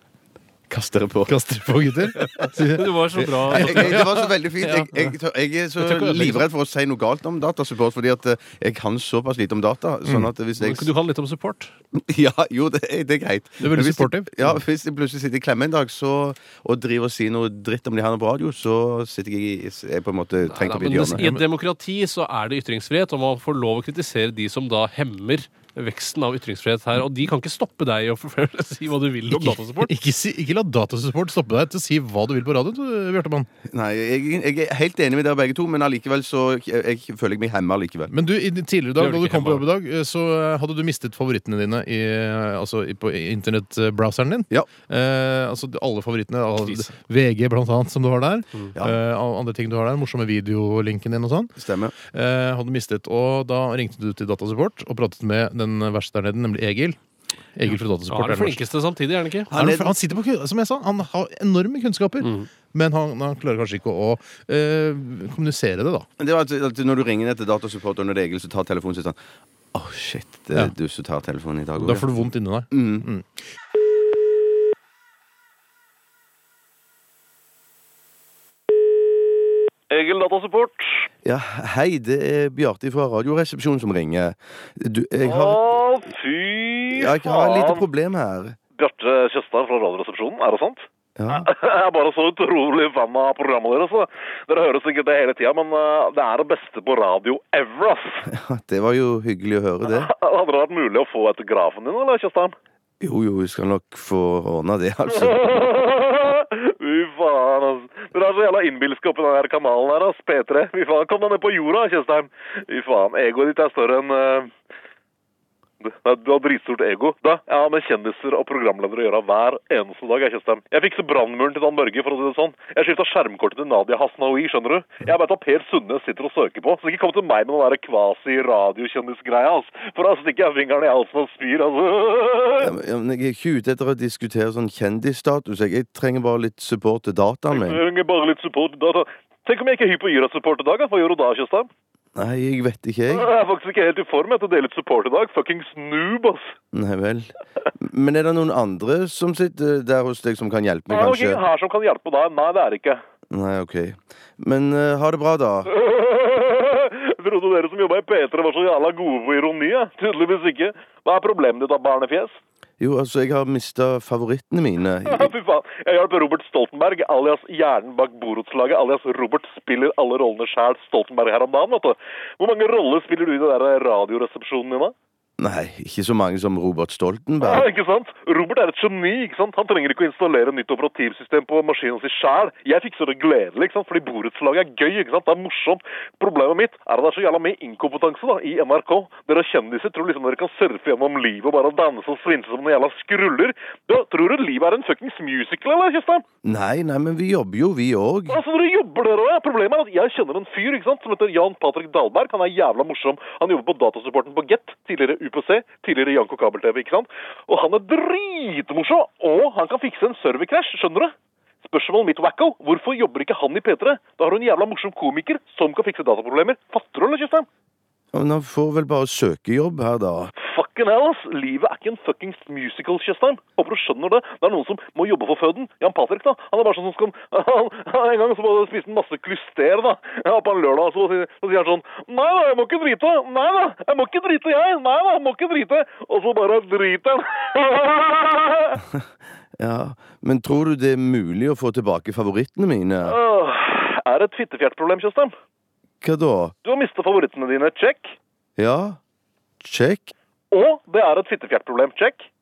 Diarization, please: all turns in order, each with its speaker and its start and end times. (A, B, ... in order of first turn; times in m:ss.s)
0:00.7-0:01.4 A
0:01.3-0:02.8 B
0:02.2-0:04.1 C
0:03.5-0:10.9 A
0:03.5-0:04.0 B
0:05.8-0:06.4 C
0:10.6-0:11.7 C
0:12.0-0:21.2 A
0:13.6-0:14.6 B
0:20.5-0:29.9 C
0:29.3-0:33.5 B
0:33.6-0:38.1 A
0:38.1-0:57.0 B
0:39.0-0:39.6 C
0:51.6-0:51.9 A
0:57.5-0:58.6 B
0:58.1-0:59.5 C
0:59.5-0:59.9 A
0:59.5-1:06.1 B
1:06.2-1:09.2 A
1:09.7-1:12.2 A
1:11.8-1:13.3 B
1:12.7-1:13.0 A
1:19.9-1:21.1 D
1:21.2-1:25.8 A
1:25.2-1:27.8 D
1:26.9-1:28.6 A
1:28.8-1:38.2 D
1:31.2-1:31.5 A
1:38.2-1:40.1 A
1:39.8-1:42.5 D
1:43.0-1:45.5 A
1:45.1-1:54.5 D
1:55.8-2:12.7 D
2:12.6-2:17.8 A
2:17.5-2:21.7 D
2:22.1-2:23.3 A
2:23.1-2:26.5 D
2:26.7-2:31.4 A
2:30.9-2:33.0 D
2:33.3-2:35.7 A
2:35.7-2:42.4 D
2:42.8-2:45.3 A
2:45.0-2:54.9 D
2:55.4-2:57.7 A
2:57.4-3:16.2 D
3:16.4-3:18.4 A
3:18.3-3:37.5 D
3:38.1-3:40.3 A
3:40.4-3:58.8 D
3:59.6-4:03.2 A
4:03.0-4:05.3 D
4:06.0-4:06.5 A
4:06.6-4:08.2 D
4:08.6-4:09.0 A
4:09.6-4:10.1 A
4:10.5-4:12.3 D